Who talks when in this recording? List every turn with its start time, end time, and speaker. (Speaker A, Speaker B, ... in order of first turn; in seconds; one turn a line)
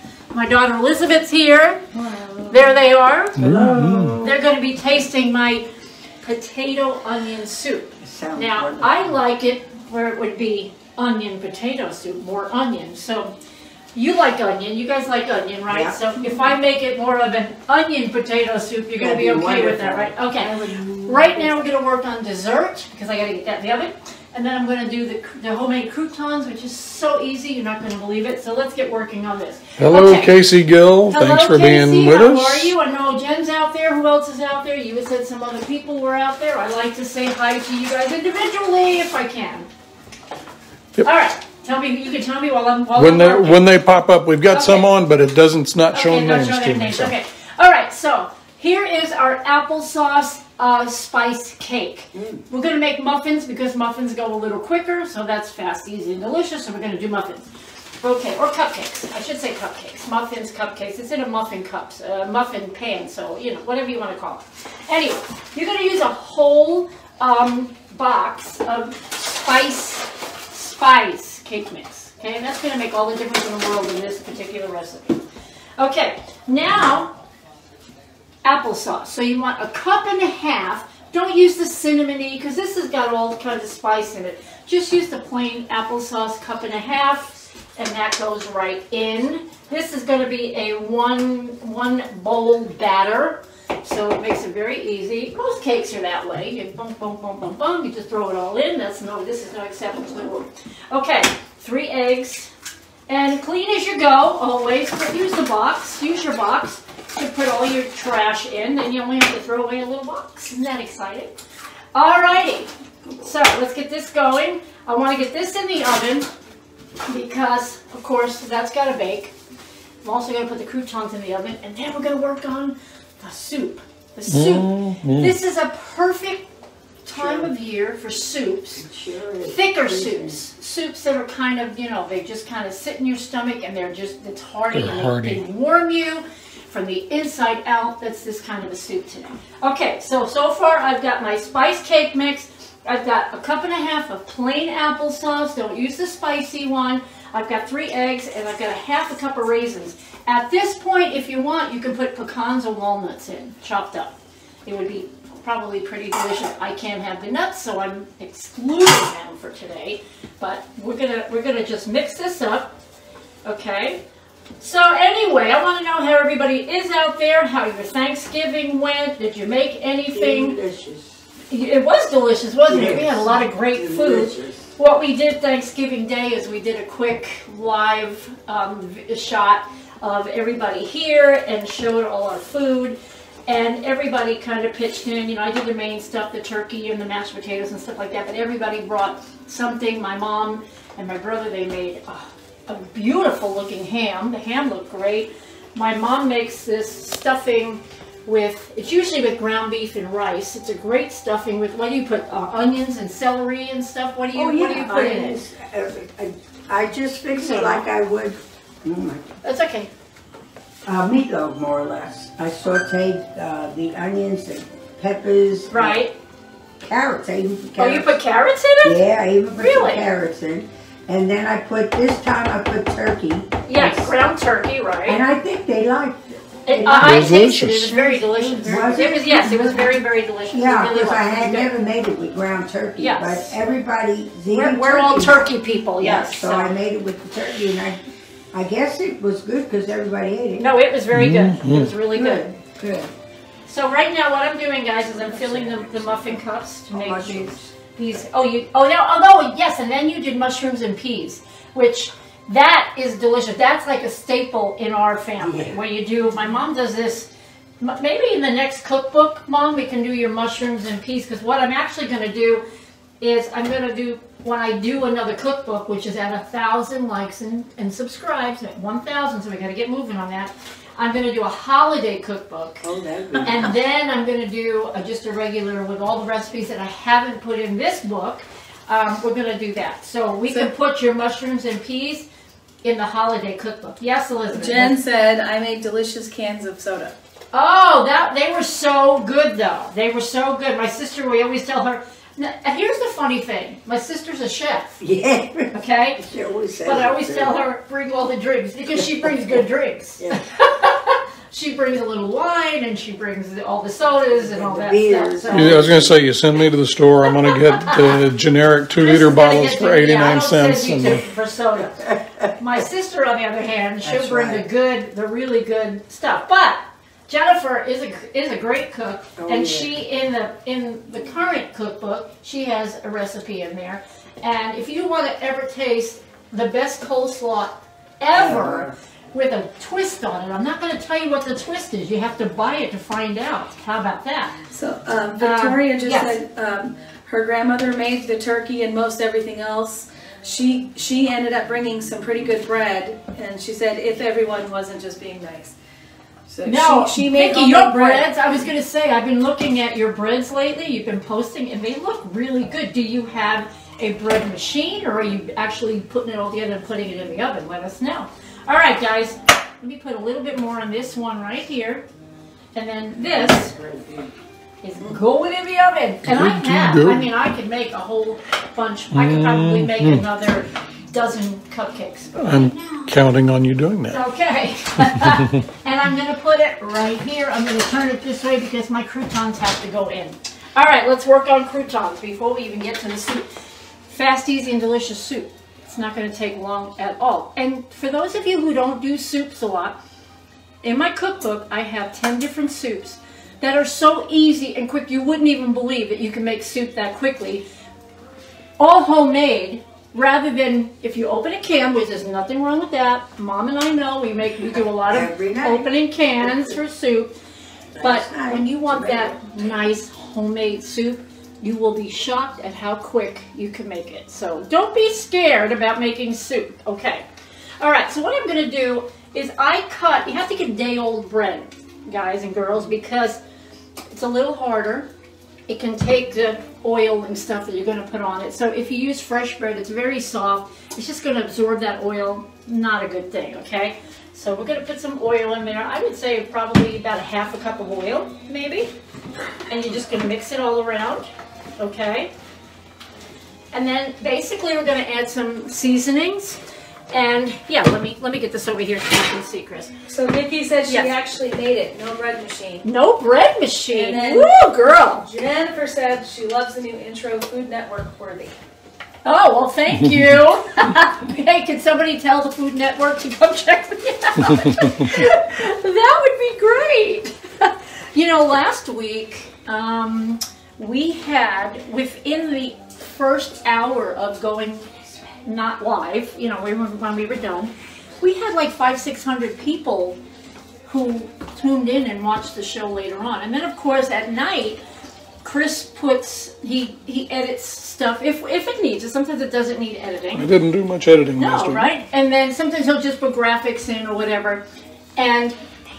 Speaker A: 0.3-1.9
Speaker B: 1.9-2.7
Speaker A: 2.5-3.4
Speaker B: 3.3-4.4
Speaker C: 3.4-4.2
Speaker A: 4.2-5.7
Speaker A: 6.2-13.3
Speaker B: 8.0-9.1
Speaker A: 13.9-20.5
Speaker B: 15.7-16.5
Speaker B: 19.0-21.7
Speaker A: 21.0-30.4
Speaker C: 29.8-32.7
Speaker A: 31.1-39.7
Speaker A: 41.0-43.6
Speaker C: 43.0-47.1
Speaker A: 44.5-44.9
Speaker A: 45.9-57.4
Speaker B: 52.1-52.4
Speaker A: 58.0-75.2
Speaker A: 75.8-77.1
Speaker A: 78.4-102.5
Speaker A: 103.1-111.3
Speaker A: 111.9-116.3
Speaker A: 117.1-119.3
Speaker A: 120.0-126.5
Speaker C: 124.3-125.3
Speaker A: 127.0-128.8
Speaker B: 127.1-127.5
Speaker B: 128.8-130.4
Speaker A: 129.4-154.1
Speaker C: 134.7-135.4
Speaker A: 154.6-162.7
Speaker A: 163.4-164.0
Speaker A: 164.6-170.6
Speaker B: 170.1-171.1
Speaker A: 171.5-205.4
Speaker B: 172.7-174.7
Speaker B: 204.3-209.3
Speaker A: 207.3-207.8
Speaker A: 209.4-209.9
Speaker B: 210.8-216.0
Speaker A: 215.7-216.1
Speaker B: 216.8-218.1
Speaker A: 217.8-220.0
Speaker B: 218.8-224.1
Speaker A: 223.7-225.2
Speaker B: 225.1-238.0
Speaker A: 226.7-231.7
Speaker C: 226.8-228.0
Speaker A: 233.0-233.6
Speaker A: 234.5-236.8
Speaker B: 238.5-240.7
Speaker A: 240.6-242.5
Speaker C: 241.1-241.9
Speaker B: 242.1-243.1
Speaker A: 243.7-262.6
Speaker B: 245.2-247.7
Speaker B: 255.4-255.8
Speaker A: 263.2-272.8
Speaker B: 272.8-273.8
Speaker A: 273.4-282.3
Speaker A: 282.8-285.0
Speaker D: 284.5-287.1
Speaker A: 287.5-295.0
Speaker B: 295.0-297.6
Speaker A: 295.7-296.2
Speaker A: 296.8-305.8
Speaker B: 298.9-299.6
Speaker B: 304.3-306.2
Speaker C: 305.5-311.2
Speaker A: 309.0-311.9
Speaker B: 311.8-312.5
Speaker A: 312.6-334.6
Speaker B: 314.0-314.6
Speaker B: 319.4-319.9
Speaker B: 328.3-328.9
Speaker D: 334.7-345.7
Speaker A: 335.4-336.4
Speaker D: 346.5-348.3
Speaker A: 346.6-362.1
Speaker A: 362.7-363.8
Speaker B: 363.3-364.3
Speaker A: 364.8-373.1
Speaker C: 366.2-367.3
Speaker C: 369.1-370.2
Speaker C: 372.4-374.2
Speaker A: 374.1-383.4
Speaker A: 384.1-390.0
Speaker A: 390.8-397.6
Speaker A: 398.8-407.4
Speaker B: 405.1-405.9
Speaker B: 407.9-409.5
Speaker A: 408.0-417.2
Speaker A: 417.8-423.4
Speaker A: 424.1-425.1
Speaker A: 425.7-438.9
Speaker A: 439.7-442.3
Speaker A: 443.7-446.6
Speaker A: 447.1-449.9
Speaker D: 450.1-452.8
Speaker A: 450.9-451.1
Speaker A: 452.8-455.3
Speaker D: 453.9-454.5
Speaker D: 455.1-458.6
Speaker A: 459.2-474.9
Speaker A: 475.4-480.2
Speaker A: 480.9-484.8
Speaker A: 485.4-490.5
Speaker C: 490.3-491.9
Speaker A: 491.4-494.6
Speaker A: 495.1-495.6